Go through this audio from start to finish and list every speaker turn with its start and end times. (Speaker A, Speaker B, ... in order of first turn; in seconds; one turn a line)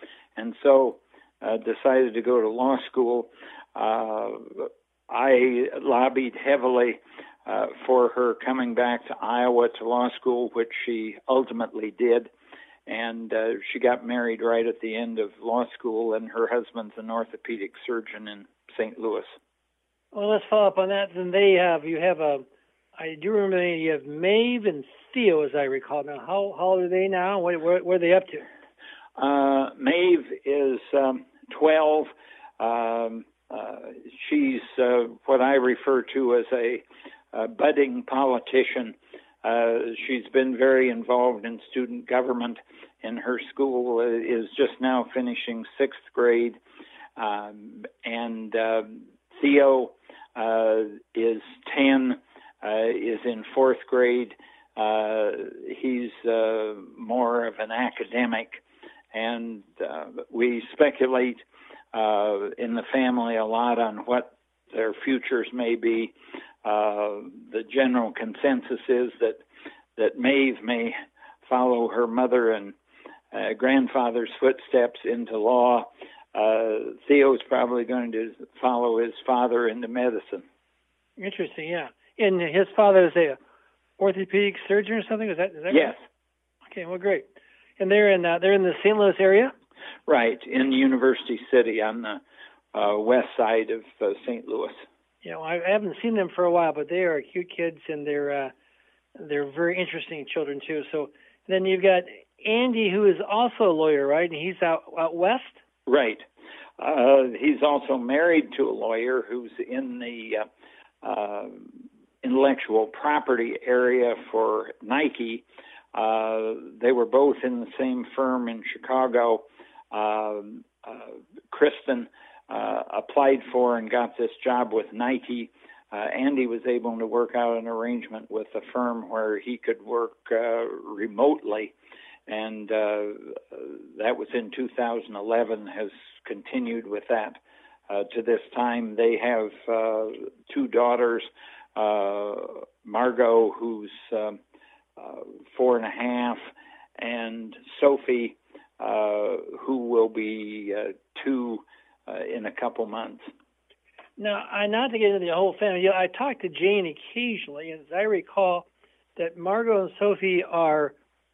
Speaker A: 0.3-12.3
Speaker A: 12.9-19.3
Speaker B: 20.1-22.4
Speaker B: 23.0-28.5
Speaker A: 29.2-46.6
Speaker A: 47.2-58.6
Speaker A: 59.1-61.4
Speaker A: 61.9-69.4
Speaker A: 70.0-71.0
Speaker A: 71.5-72.7
Speaker A: 73.3-80.4
Speaker B: 81.2-83.4
Speaker B: 84.0-86.0
Speaker A: 85.7-86.0
Speaker B: 86.7-87.2
Speaker B: 87.8-89.5
Speaker A: 90.1-92.2
Speaker A: 92.7-94.8
Speaker B: 95.2-98.5
Speaker B: 99.2-105.6
Speaker A: 105.8-106.2
Speaker A: 106.8-110.5
Speaker A: 111.0-111.7
Speaker A: 112.2-115.4
Speaker A: 115.9-131.7
Speaker A: 132.3-137.4
Speaker A: 137.9-144.4
Speaker A: 145.0-146.4
Speaker A: 147.0-153.2
Speaker B: 154.2-160.9